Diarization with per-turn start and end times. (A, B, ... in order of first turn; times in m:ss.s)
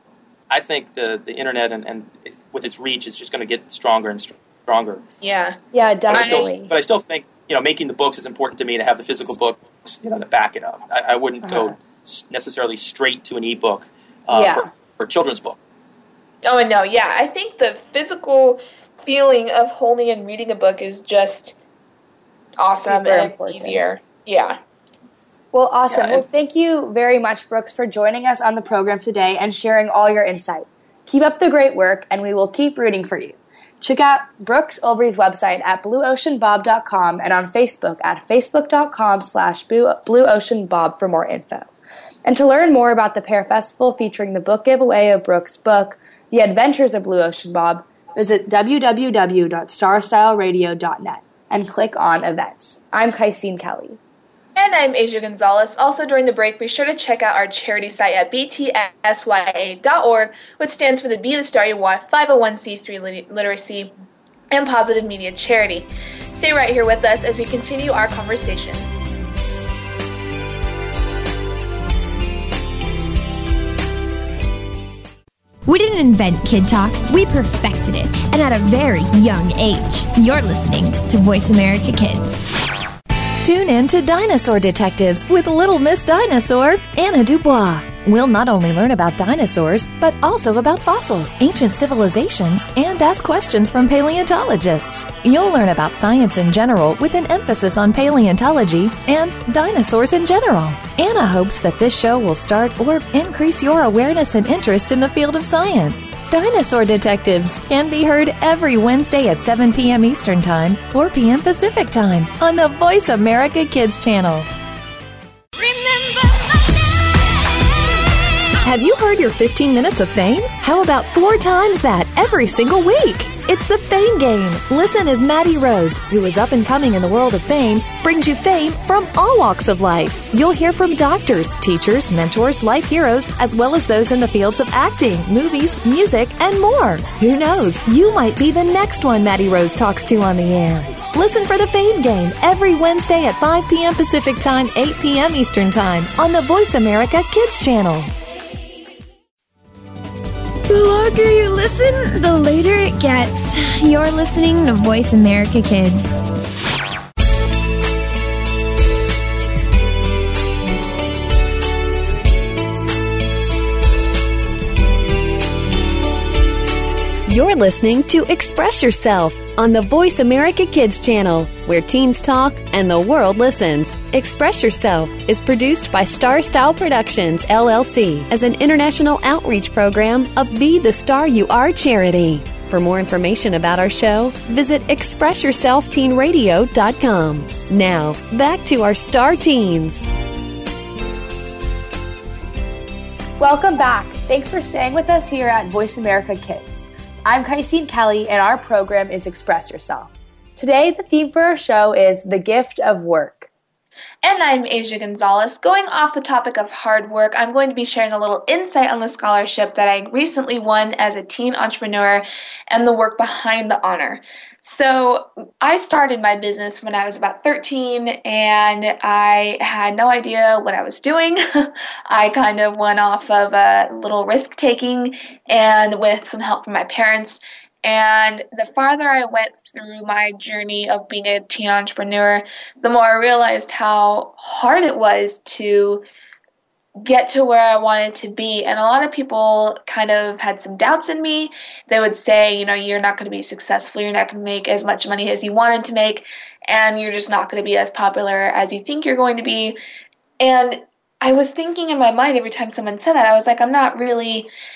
0:00.5-0:05.0 A
0:05.2-0:05.6 B
0:05.7-0:06.7 C
0:06.1-0:15.6 A
0:06.1-0:06.5 B
0:11.4-0:11.7 C
0:14.3-0:14.7 C
0:16.4-0:21.6 B
0:22.6-0:24.6 B
0:22.8-0:23.8 C
0:25.5-0:41.7 C
0:25.9-0:26.2 A
0:42.2-0:54.0 C
0:54.6-1:03.9 B
1:04.5-1:08.9 B
1:15.6-1:22.5 D
1:23.4-1:54.5 E
1:58.6-2:28.1 E
2:30.7-2:36.2 D
2:47.2-3:10.0 F
3:13.4-3:23.5 C
3:24.2-3:56.0 B
3:57.0-4:09.8 B
4:10.4-4:14.5 B